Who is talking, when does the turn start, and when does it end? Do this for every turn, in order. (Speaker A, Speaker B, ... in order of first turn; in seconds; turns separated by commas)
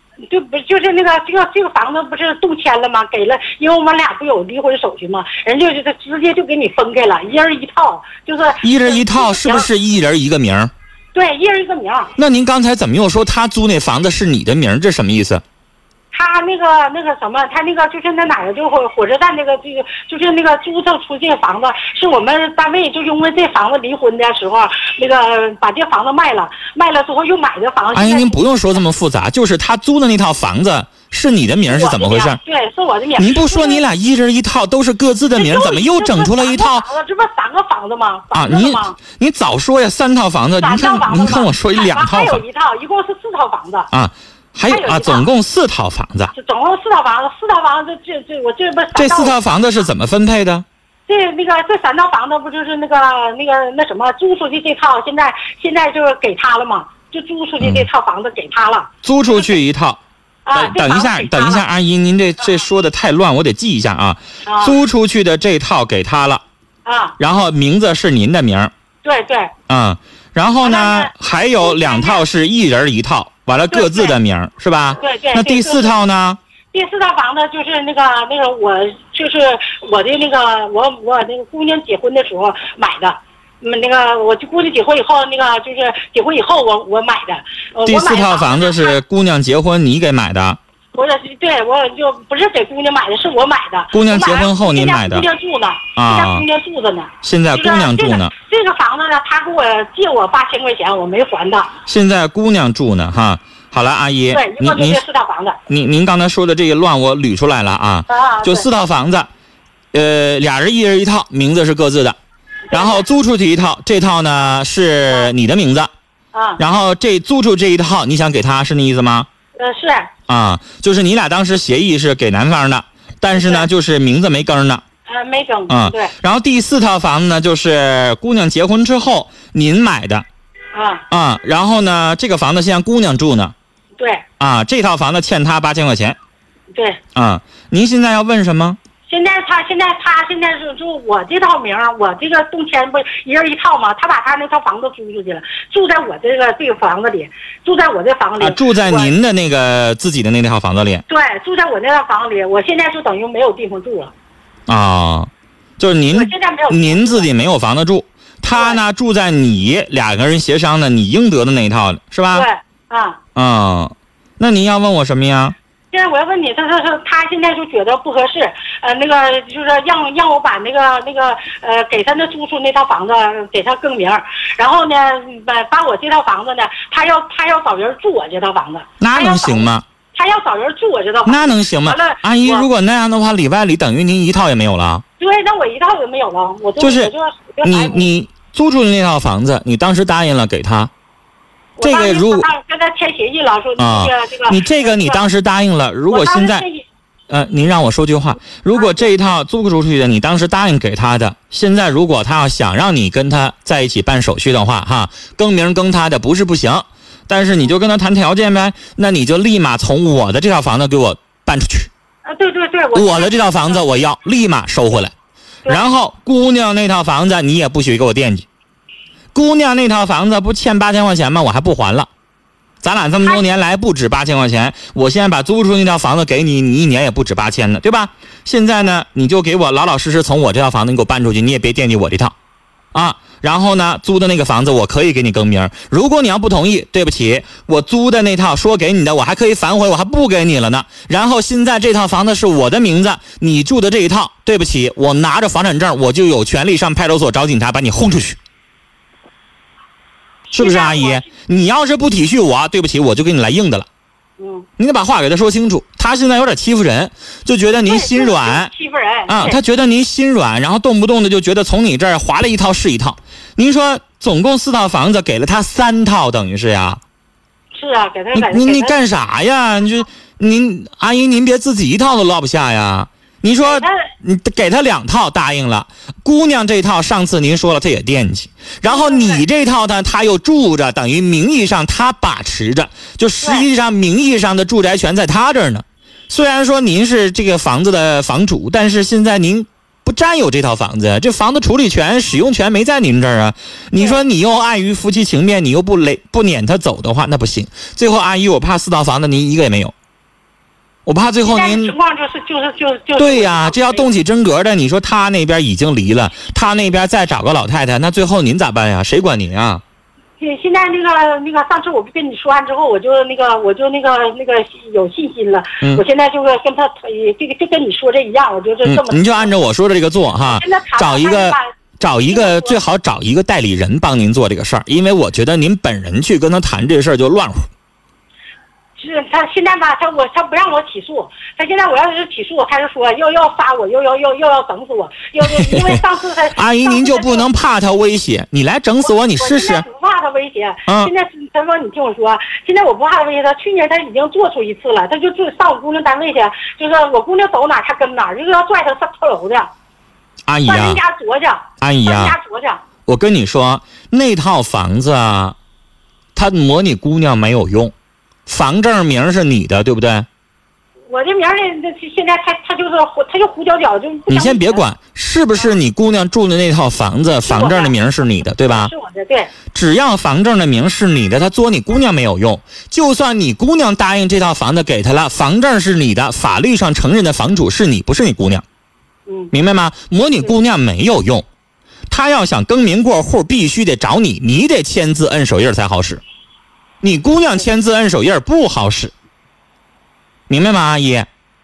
Speaker A: 0.3-9.7, Speaker B: 8.6-10.7, Speaker A: 11.1-12.1, Speaker B: 12.2-15.4, Speaker A: 16.1-28.4, Speaker B: 27.9-32.4, Speaker A: 31.7-33.8, Speaker B: 33.2-36.8, Speaker A: 35.3-39.0, Speaker B: 38.3-42.4, Speaker A: 40.6-43.9, Speaker B: 43.9-46.3, Speaker A: 44.6-45.2, Speaker A: 46.3-49.3, Speaker B: 48.9-50.6, Speaker A: 51.1-59.6, Speaker B: 57.6-57.9, Speaker B: 59.0-60.0, Speaker A: 60.5-61.6, Speaker B: 60.5-66.4, Speaker A: 64.4-64.8, Speaker A: 66.8-67.2, Speaker B: 67.2-68.7, Speaker A: 69.0-69.5, Speaker B: 69.7-76.4, Speaker A: 70.6-72.2, Speaker A: 73.7-74.2, Speaker A: 75.0-76.0, Speaker A: 76.7-89.0, Speaker B: 87.8-90.6, Speaker A: 90.9-101.7, Speaker B: 93.9-95.3, Speaker B: 96.0-96.5, Speaker B: 97.2-98.3, Speaker B: 101.8-105.0, Speaker A: 104.3-105.6, Speaker B: 105.7-109.3, Speaker A: 108.1-108.7, Speaker B: 109.9-112.2, Speaker A: 112.7-113.0, Speaker B: 112.7-115.9, Speaker A: 116.3-116.6, Speaker B: 116.6-119.3, Speaker A: 119.6-120.1, Speaker B: 120.3-124.8, Speaker A: 123.3-123.7, Speaker A: 125.1-126.1, Speaker B: 125.7-130.2, Speaker A: 130.7-131.0, Speaker B: 131.1-133.5, Speaker A: 134.0-134.2, Speaker B: 134.4-136.2, Speaker A: 136.7-137.0, Speaker B: 137.1-138.8, Speaker A: 139.1-149.1, Speaker B: 148.4-151.0, Speaker A: 151.1-154.1, Speaker B: 154.7-162.5, Speaker A: 156.1-157.3, Speaker A: 158.5-158.8, Speaker A: 162.3-163.2, Speaker B: 163.3-165.5, Speaker A: 165.9-182.7, Speaker B: 179.0-179.8, Speaker B: 181.2-185.0, Speaker A: 185.2-188.1, Speaker B: 186.8-187.1, Speaker B: 187.6-190.9, Speaker A: 191.8-195.3, Speaker B: 191.8-192.4, Speaker B: 193.8-196.7, Speaker A: 196.1-196.9, Speaker B: 197.3-211.9, Speaker A: 198.7-199.1, Speaker A: 212.2-213.8, Speaker B: 212.9-215.1, Speaker B: 215.7-218.5, Speaker B: 219.3-222.1, Speaker B: 222.8-232.3, Speaker B: 232.9-248.4, Speaker A: 250.5-251.3, Speaker B: 250.5-253.8, Speaker A: 254.4-254.7, Speaker B: 254.8-258.7, Speaker A: 257.9-259.6, Speaker B: 259.3-267.0, Speaker A: 267.7-268.9, Speaker B: 268.3-299.9, Speaker A: 273.6-274.1, Speaker A: 278.9-279.4, Speaker A: 283.4-283.7, Speaker A: 294.0-294.2, Speaker B: 301.1-301.9, Speaker A: 301.4-304.1, Speaker B: 303.2-309.8, Speaker A: 310.4-319.5, Speaker B: 318.8-327.6, Speaker A: 320.4-321.7, Speaker A: 322.2-322.8, Speaker A: 329.0-337.5, Speaker B: 335.4-336.0, Speaker B: 336.6-339.8, Speaker A: 339.0-349.7, Speaker B: 350.5-351.0, Speaker A: 350.6-352.8, Speaker B: 351.8-352.4, Speaker B: 353.1-355.6, Speaker B: 356.3-357.9, Speaker B: 358.5-360.3, Speaker A: 361.1-364.8, Speaker B: 364.3-368.9, Speaker A: 367.3-369.5, Speaker B: 369.7-378.6, Speaker A: 379.3-379.5, Speaker B: 379.5-381.4, Speaker B: 382.1-386.2, Speaker B: 387.0-389.1, Speaker B: 390.5-391.3